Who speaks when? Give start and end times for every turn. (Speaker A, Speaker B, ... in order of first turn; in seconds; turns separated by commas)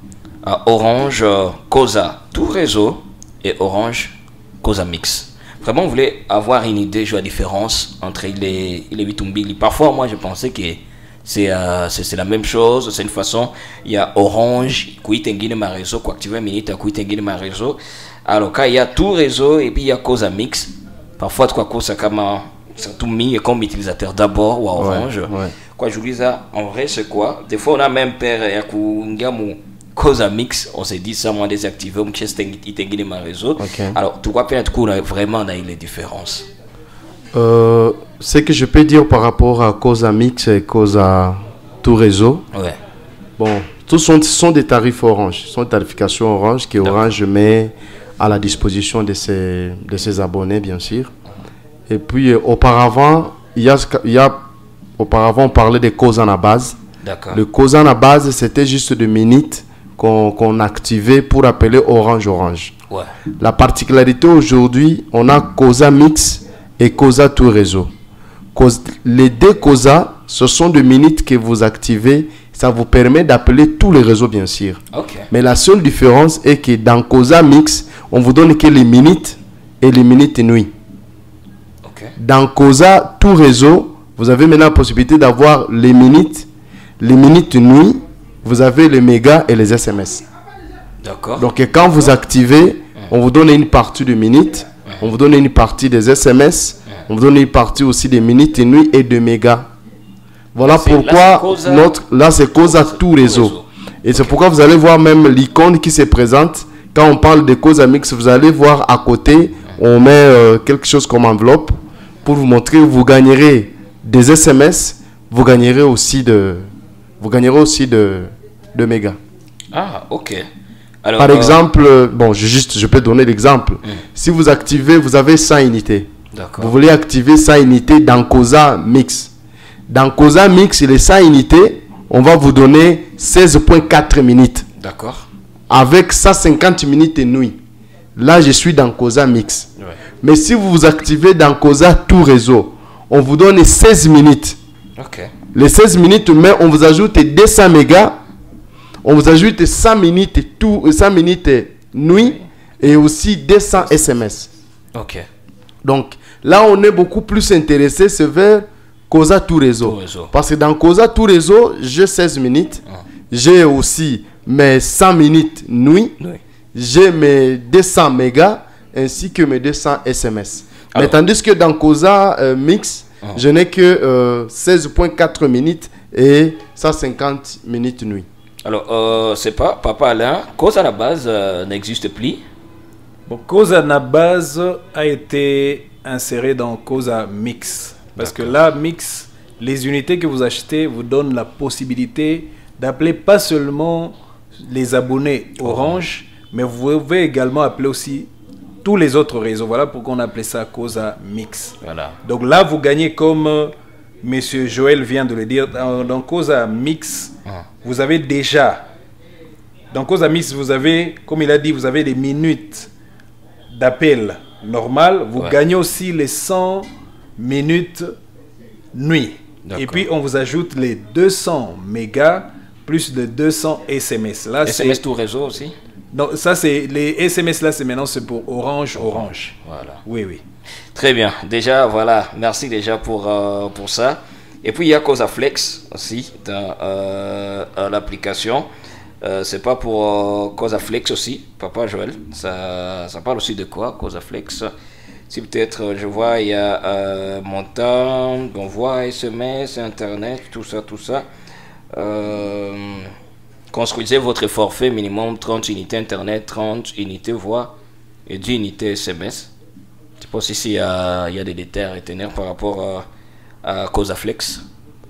Speaker A: 0.4-36.5, Speaker B: 24.8-25.6, Speaker B: 33.6-34.0, Speaker B: 37.3-42.4, Speaker B: 43.4-51.1, Speaker B: 51.9-54.4, Speaker B: 55.0-56.8, Speaker A: 57.0-57.4, Speaker B: 57.3-62.7, Speaker B: 63.4-67.9, Speaker B: 68.5-80.7, Speaker A: 74.9-75.3, Speaker A: 81.8-82.1, Speaker B: 82.2-86.5, Speaker B: 87.0-90.2, Speaker A: 91.0-91.5, Speaker B: 91.4-99.7, Speaker B: 100.5-116.7, Speaker A: 100.6-102.0, Speaker A: 102.5-104.4, Speaker B: 117.2-119.2, Speaker A: 119.7-120.5, Speaker A: 121.0-121.6, Speaker B: 121.2-129.3, Speaker A: 126.3-126.7, Speaker B: 129.9-134.7, Speaker A: 134.8-135.3, Speaker B: 135.7-137.6, Speaker B: 138.2-139.7, Speaker B: 140.2-144.6, Speaker A: 145.0-145.3, Speaker B: 145.5-148.2, Speaker B: 149.0-154.5, Speaker A: 154.9-155.3, Speaker B: 155.8-166.2, Speaker A: 159.8-160.3, Speaker B: 166.7-178.3, Speaker A: 178.7-182.4, Speaker C: 183.3-198.3, Speaker A: 188.2-188.5, Speaker A: 195.6-196.0, Speaker C: 198.8-208.9, Speaker A: 201.8-202.2, Speaker C: 209.9-212.9, Speaker C: 213.7-218.1, Speaker C: 218.9-225.0, Speaker A: 219.7-220.0, Speaker A: 224.7-225.7, Speaker C: 226.1-230.4, Speaker A: 229.0-230.0, Speaker A: 230.9-238.7, Speaker A: 239.2-244.7, Speaker A: 245.3-251.3, Speaker A: 251.9-253.1, Speaker A: 253.7-257.8, Speaker A: 258.3-259.5, Speaker A: 260.2-263.0, Speaker A: 263.6-264.6